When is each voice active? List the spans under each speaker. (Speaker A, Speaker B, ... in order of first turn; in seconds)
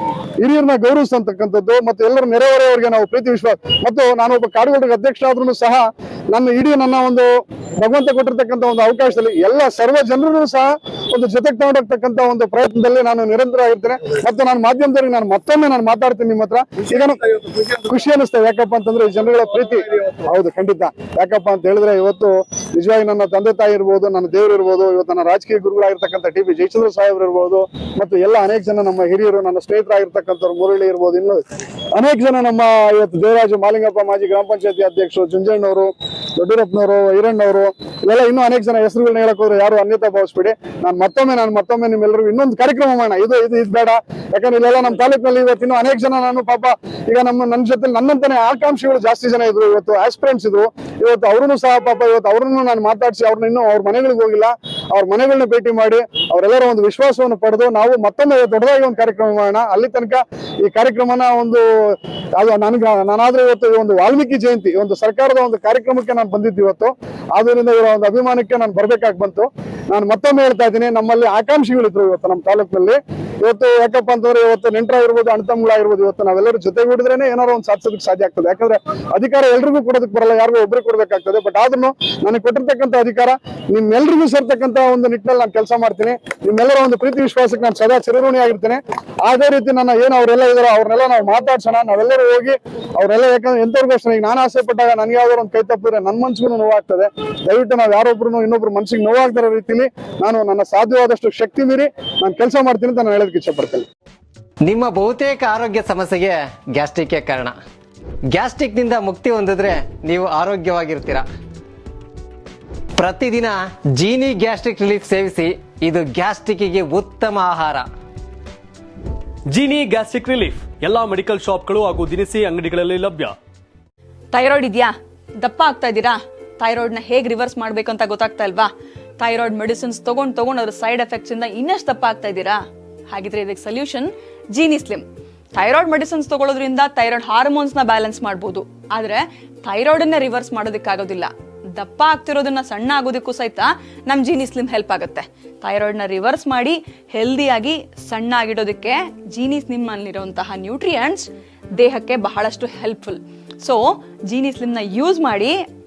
Speaker A: 0.4-17.2, 17.9-103.9
Speaker B: 16.8-18.0, 19.6-20.3
Speaker C: 104.6-107.5, 108.3-111.2, 113.0-117.9
Speaker D: 119.5-123.3
Speaker E: 124.3-128.7, 129.2-132.6, 133.1-155.6